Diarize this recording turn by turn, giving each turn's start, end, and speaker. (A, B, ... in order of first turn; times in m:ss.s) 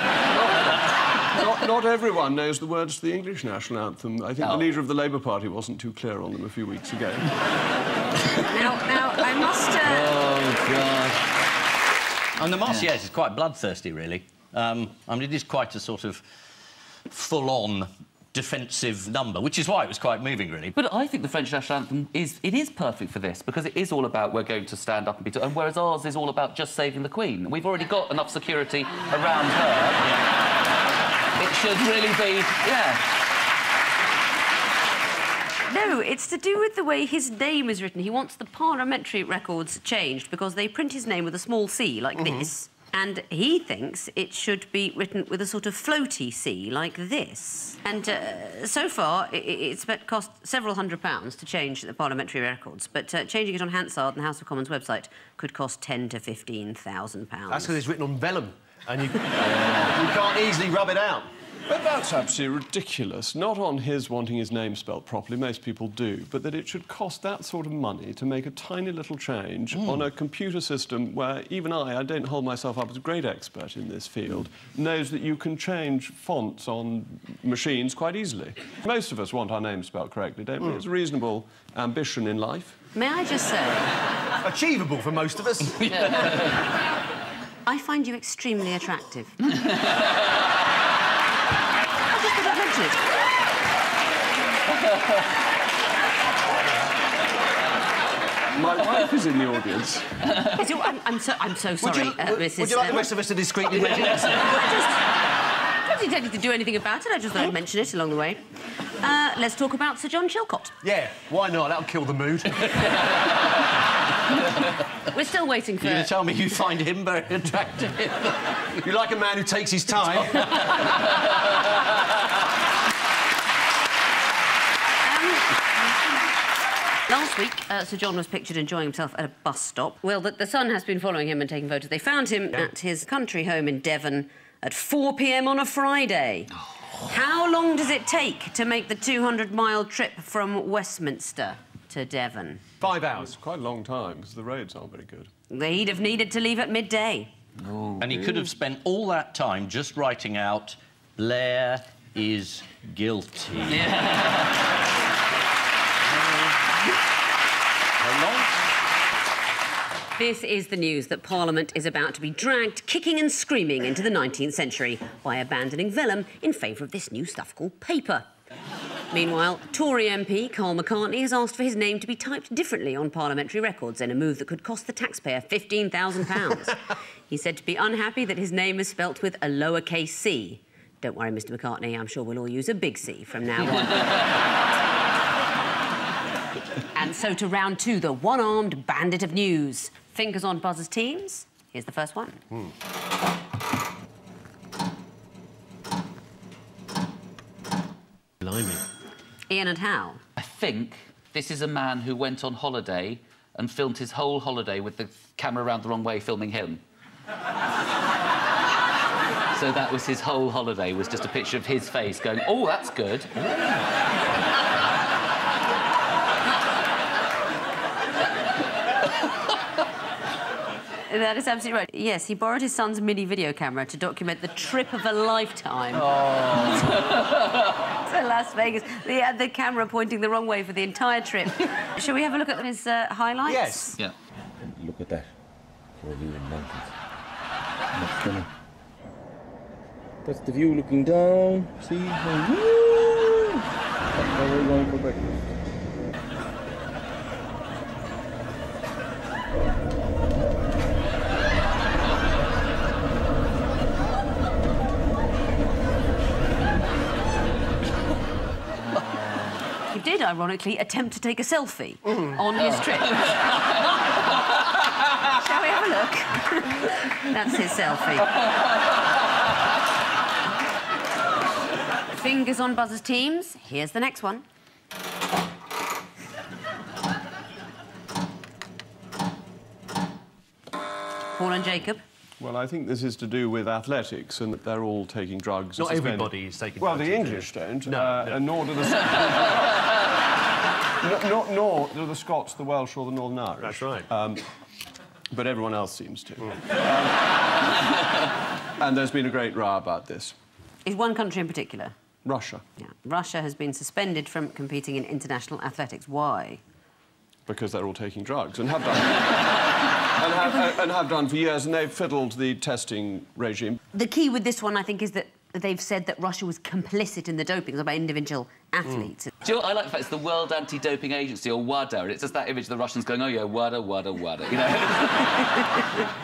0:00.3-0:07.3 A
0:08.5-0:10.2 B
0:09.8-0:11.2 C
0:12.4-0:16.2 D
0:17.1-0:20.8 D
0:20.8-0:30.2 C
0:31.4-0:33.1 C
0:35.7-0:57.8 B
0:57.5-1:01.3 E
1:01.7-1:22.8 A
1:23.0-1:23.9 B
1:24.4-1:26.3 E
1:27.7-1:29.4 B
1:32.1-1:33.0 B
1:38.5-1:40.3 A
1:40.5-1:43.1 B
1:41.8-1:44.6 E
1:44.4-1:45.0 B
1:45.8-1:48.4 B
1:49.0-1:50.8 B
1:50.8-1:52.9 E
1:55.1-1:56.1 B
1:55.8-1:58.6 D
1:58.8-2:00.4 E
2:00.4-2:00.9 D
2:05.0-2:05.5 B
2:07.1-2:22.6 B
2:22.8-2:23.2 E
2:22.8-2:25.3 A
2:25.5-2:27.3 B
2:27.6-2:28.0 C
2:28.0-2:33.9 D
2:33.9-2:34.3 C
2:36.2-2:36.5 D
2:38.0-2:38.5 D
2:40.2-2:48.3 B
2:49.1-3:04.3 B
3:06.9-3:12.4 B
3:18.4-3:18.8 E
3:19.5-3:20.2 B
3:20.4-3:26.8 C
3:29.5-3:33.3 C
3:41.1-3:46.1 B
3:48.1-3:54.0 B
3:53.5-3:54.0 E
3:54.6-3:55.4 F
3:56.0-3:57.0 F
3:57.9-3:58.5 F
4:00.2-4:03.6 F
4:04.1-4:05.5 F
4:19.9-4:23.4 B
4:25.3-4:28.3 B
4:32.1-4:34.4 B
4:41.4-4:42.0 B
4:42.4-4:49.8 A
4:45.8-4:48.4 E
4:51.0-4:54.5 A
4:53.6-4:54.1 E
4:55.3-4:57.3 A
4:58.8-5:00.4 A
5:00.8-5:01.9 B
5:02.2-5:02.6 A
5:02.8-5:06.6 B
5:07.5-5:09.6 A
5:10.2-5:13.8 A
5:13.9-5:19.3 B
5:19.4-5:25.6 C